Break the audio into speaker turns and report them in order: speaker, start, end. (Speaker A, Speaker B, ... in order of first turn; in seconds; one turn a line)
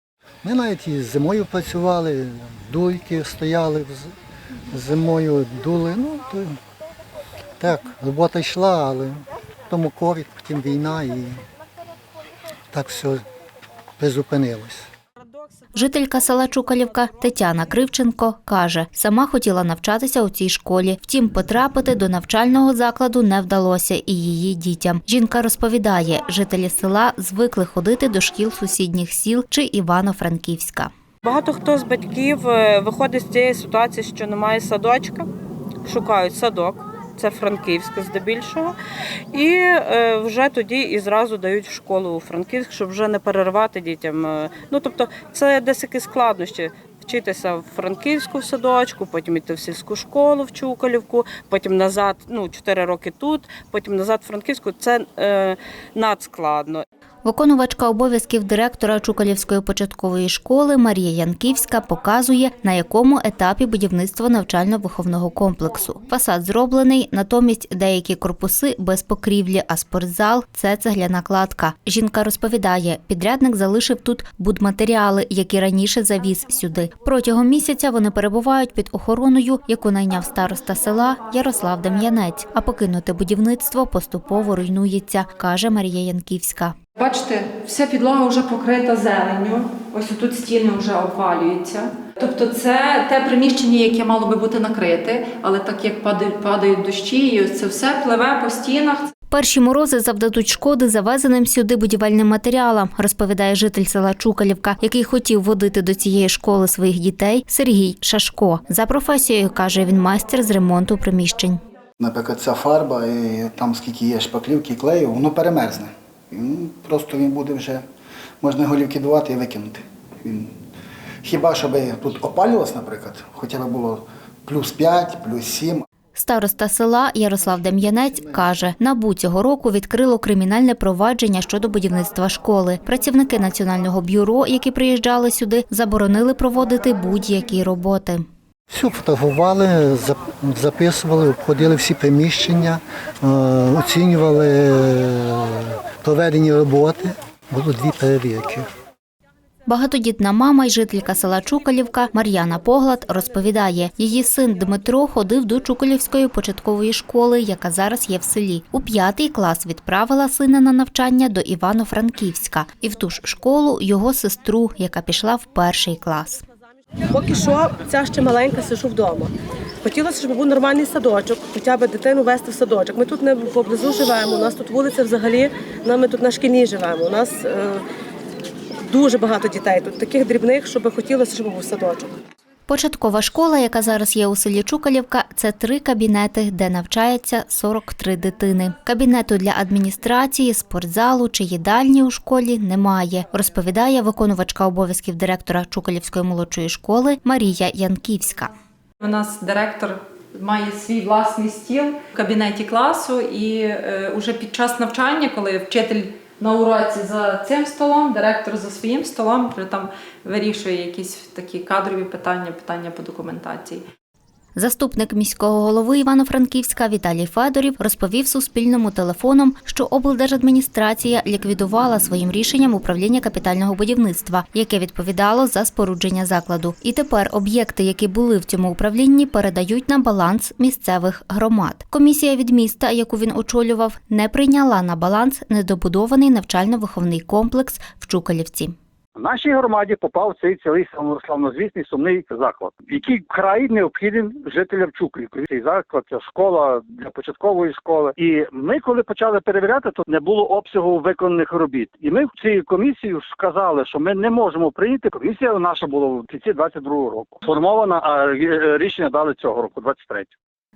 Speaker A: 0.4-4.1
Speaker A: 4.7-6.6
Speaker A: 7.6-11.4
Speaker A: 12.7-13.2
Speaker A: 14.0-14.9
Speaker B: 15.7-30.9
Speaker C: 31.2-35.3
Speaker C: 35.8-38.7
Speaker C: 39.3-56.8
Speaker B: 57.2-86.7
Speaker D: 87.0-99.1
Speaker B: 99.3-111.6
Speaker E: 112.0-117.8
Speaker E: 118.4-120.5
Speaker E: 121.2-125.8
Speaker B: 126.1-138.2
Speaker A: 138.7-148.7
Speaker B: 149.7-166.4
Speaker F: 167.1-177.8
Speaker F: 178.8-182.2
Speaker B: 182.7-198.5
Speaker D: 199.0-213.8
Speaker B: 214.6-238.7
Speaker G: 239.2-260.3